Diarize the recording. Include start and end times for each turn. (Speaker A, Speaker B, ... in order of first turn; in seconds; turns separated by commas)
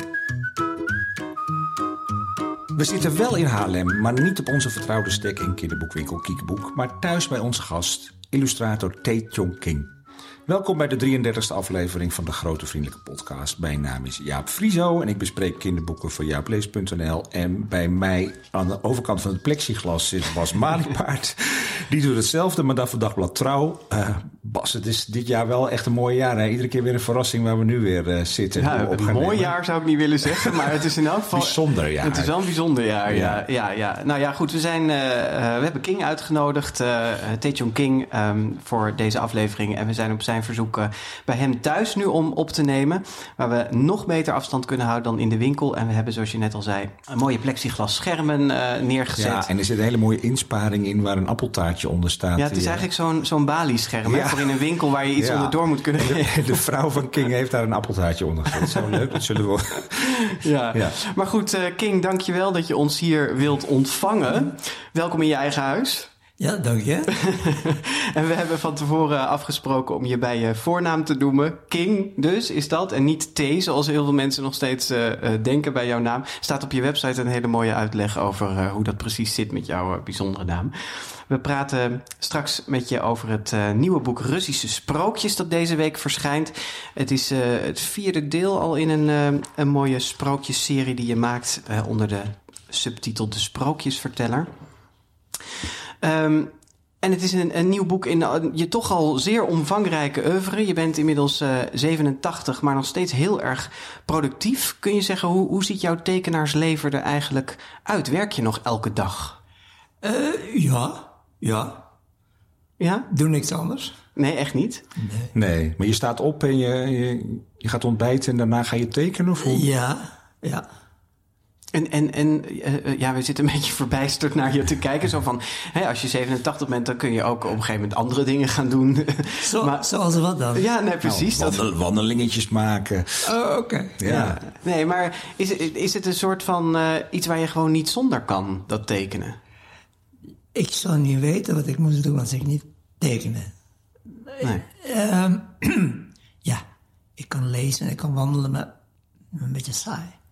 Speaker A: 2.7-9.9, Speaker A: 10.5-29.6, Speaker B: 28.6-49.5, Speaker A: 31.3-32.4, Speaker A: 33.1-33.4, Speaker A: 49.2-52.9, Speaker B: 52.4-56.6, Speaker A: 54.0-60.9, Speaker B: 58.5-59.0, Speaker B: 60.3-66.1, Speaker C: 66.4-67.1, Speaker B: 67.2-94.5, Speaker B: 96.0-109.4, Speaker C: 110.0-111.9, Speaker B: 112.8-113.1, Speaker C: 113.1-114.0, Speaker B: 114.2-114.8, Speaker C: 115.0-115.3, Speaker A: 115.3-119.7, Speaker C: 119.4-120.7, Speaker B: 121.7-129.9, Speaker C: 129.4-130.7, Speaker B: 130.5-131.7, Speaker A: 131.0-133.3, Speaker C: 133.2-134.0, Speaker A: 134.0-134.4, Speaker B: 134.1-139.4, Speaker C: 140.5-143.5, Speaker C: 144.1-146.6, Speaker C: 147.2-148.7, Speaker C: 149.3-150.2